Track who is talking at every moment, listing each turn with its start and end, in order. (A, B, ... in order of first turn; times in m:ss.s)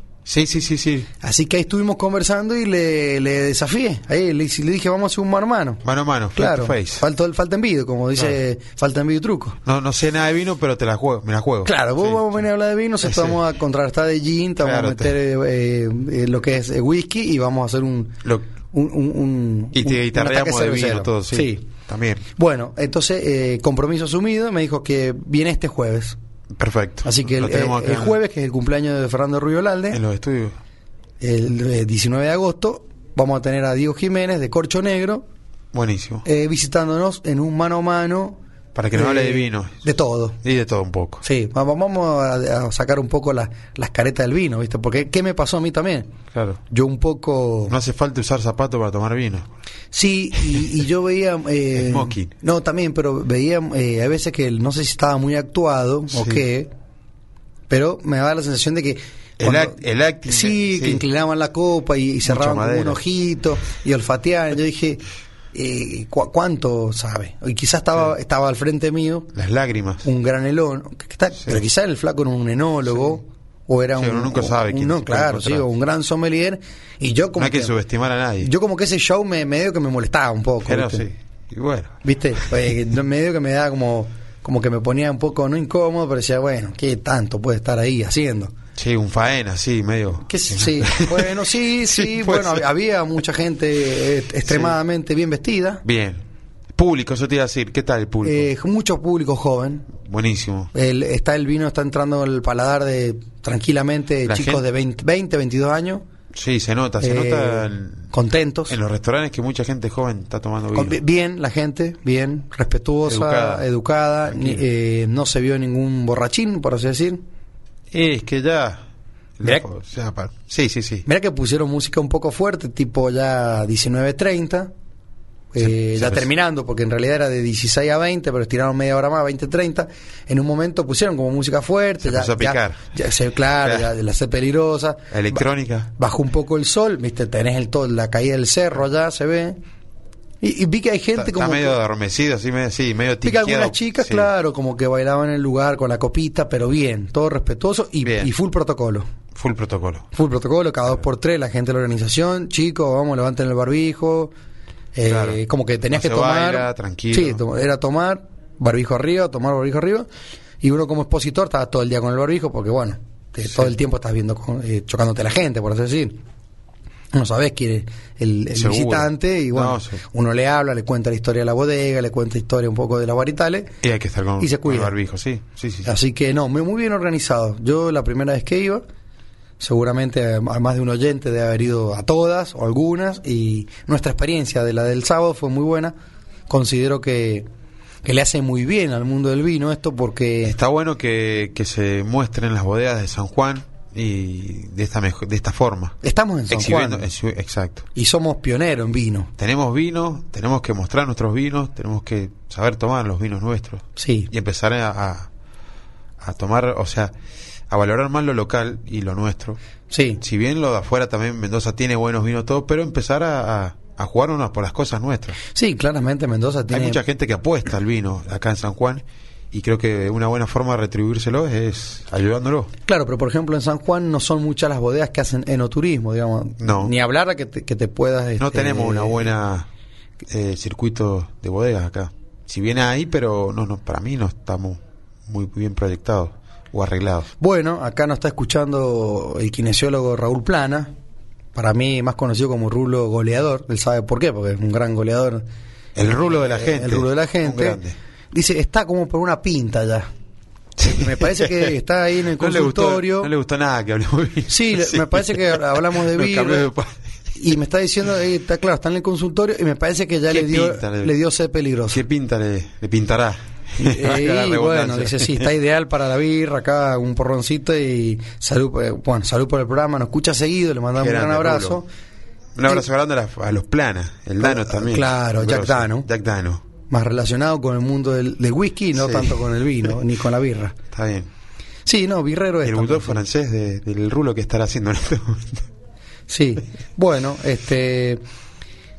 0:00.2-0:01.1 A
0:01.2-0:05.8 B
0:05.8-0:07.0 A
0:06.4-0:09.6 B
0:09.6-0:12.4 A
0:11.6-0:21.6 B
0:13.0-0:13.4 A
0:14.6-0:15.1 A
0:19.7-0:22.2 A
0:22.3-0:26.2 B
0:26.5-0:28.2 A
0:27.0-0:30.0 B
0:29.9-0:30.6 A
0:31.2-0:35.2 B
0:35.7-0:36.2 A
0:36.2-0:38.4 B
0:38.7-0:39.8 A
0:38.9-0:40.4 B
0:40.4-0:41.2 A
0:41.2-0:46.1 B
0:46.3-0:46.6 A
0:46.7-0:47.8 B
0:47.7-0:49.5 A
0:49.9-0:56.7 B
0:51.7-0:52.3 A
0:56.1-0:56.4 A
0:57.7-1:05.0 B
0:59.4-1:01.0 A
1:02.2-1:03.0 A
1:05.5-1:09.3 B
1:09.3-1:10.0 A
1:10.0-1:17.8 B
1:14.0-1:15.7 A
1:17.4-1:18.5 A
1:18.4-1:21.1 B
1:20.6-1:22.0 A
1:22.0-1:28.5 B
1:28.8-1:32.6 A
1:30.2-1:35.8 B
1:34.5-1:34.8 A
1:35.8-1:36.2 A
1:36.7-1:38.5 A
1:38.2-1:39.9 B
1:40.0-1:40.7 A
1:40.7-1:46.0 B
1:44.2-1:44.6 A
1:46.3-1:48.1 A
1:47.0-1:48.8 B
1:48.7-1:51.0 A
1:50.7-1:57.2 B
1:53.0-1:53.7 A
1:54.3-1:54.6 A
1:57.9-1:58.8 A
1:59.4-2:01.0 A
2:01.0-2:04.7 B
2:05.5-2:19.6 B
2:05.6-2:06.3 A
2:12.0-2:12.8 A
2:13.6-2:13.9 A
2:15.1-2:15.9 A
2:20.4-2:21.8 B
2:21.2-2:24.3 A
2:23.2-2:29.1 B
2:28.0-2:28.3 A
2:29.3-2:30.1 A
2:30.1-2:34.3 B
2:34.9-2:40.1 B
2:35.0-2:37.4 A
2:40.6-2:46.2 B
2:47.1-2:53.8 B
2:48.5-2:50.0 A
2:53.8-2:55.9 A
2:54.4-2:54.9 B
2:55.8-2:58.8 B
2:59.6-3:05.9 B
3:06.5-3:07.5 B
3:08.0-3:10.6 B
3:10.4-3:16.0 A
3:16.0-3:17.1 B
3:16.5-3:17.8 A
3:17.9-3:19.3 B
3:19.4-3:25.3 A
3:24.0-3:24.3 B
3:26.2-3:27.1 A
3:27.7-3:29.6 A
3:29.9-3:30.2 B
3:30.2-3:35.4 A
3:35.5-3:37.0 B
3:36.7-3:42.7 A
3:42.8-3:49.3 B
3:46.6-3:46.9 A
3:48.4-3:49.7 A
3:50.2-3:57.3 A
3:57.4-4:00.9 B
4:01.5-4:05.4 B
4:06.0-4:08.0 A
4:06.1-4:07.8 B
4:08.3-4:10.1 B
4:10.8-4:11.7 A
4:10.8-4:13.3 B
4:12.3-4:17.0 A
4:14.5-4:16.7 B
4:17.3-4:22.0 B
4:20.3-4:21.1 A
4:21.9-4:25.5 A
4:23.8-4:31.9 B
4:31.0-4:31.8 A
4:32.5-4:36.6 A
4:34.4-4:36.1 B
4:36.9-4:40.8 B
4:39.0-4:39.4 A
4:40.9-4:41.3 A
4:41.8-4:43.2 B
4:42.6-4:45.6 A
4:46.3-4:48.2 B